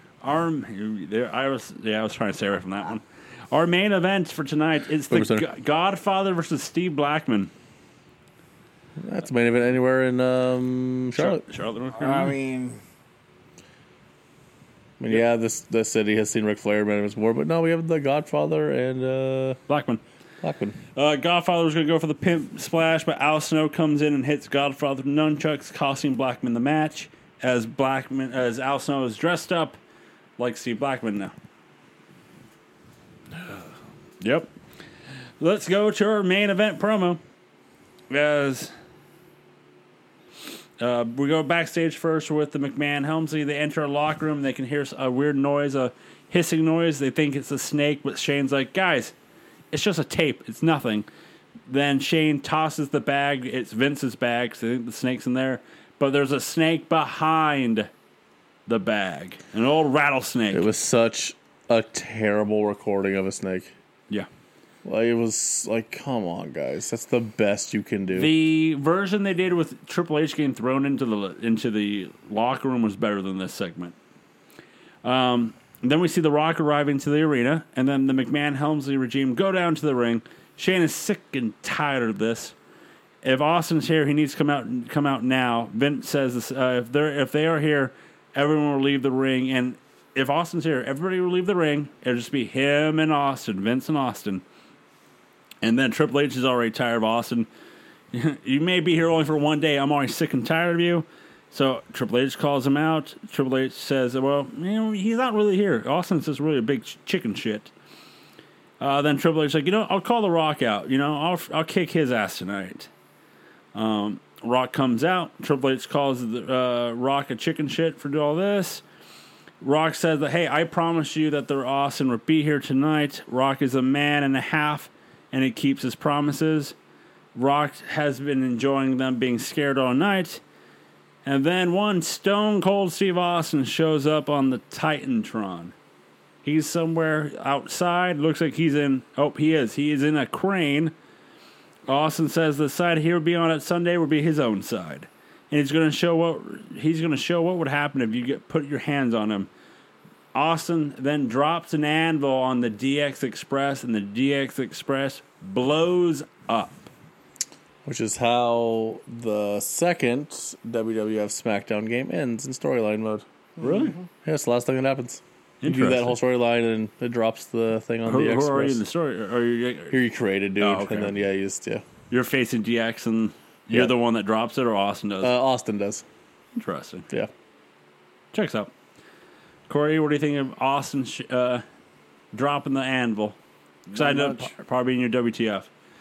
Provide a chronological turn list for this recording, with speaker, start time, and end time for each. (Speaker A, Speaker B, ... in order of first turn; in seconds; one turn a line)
Speaker A: 0.2-7.5
Speaker B: 5.1-5.5
Speaker B: 9.0-11.4
Speaker A: 11.2-12.3
Speaker C: 12.0-12.8
Speaker B: 15.0-19.6
Speaker A: 19.7-20.0
Speaker B: 20.4-20.8
Speaker A: 20.9-29.8
Speaker A: 30.4-31.3
Speaker A: 34.2-34.5
Speaker A: 35.4-37.2
Speaker A: 38.1-38.7
Speaker A: 40.8-49.1
Speaker A: 49.7-51.1
Speaker A: 51.7-57.9
Speaker A: 58.7-60.7
Speaker B: 60.5-63.7
Speaker B: 64.8-68.3
Speaker A: 68.1-74.0
Speaker A: 75.0-82.5
Speaker A: 83.2-94.4
Speaker A: 95.6-97.5
Speaker A: 98.1-107.7
Speaker A: 108.8-112.9
Speaker A: 113.7-118.8
Speaker A: 119.6-126.8
Speaker A: 127.3-130.4
Speaker A: 131.2-135.7
Speaker A: 136.4-140.9
Speaker A: 141.9-149.5
Speaker A: 150.3-156.9
Speaker B: 157.8-163.2
Speaker A: 163.6-164.0
Speaker C: 163.6-164.0
Speaker B: 164.2-168.8
Speaker A: 165.6-166.2
Speaker A: 168.1-170.0
Speaker B: 169.9-171.8
Speaker A: 170.6-171.1
Speaker A: 172.1-175.3
Speaker B: 175.2-176.0
Speaker A: 176.6-177.1
Speaker A: 178.3-178.7
Speaker A: 179.7-181.6
Speaker A: 182.3-183.4
Speaker C: 183.9-184.5
Speaker A: 183.9-185.7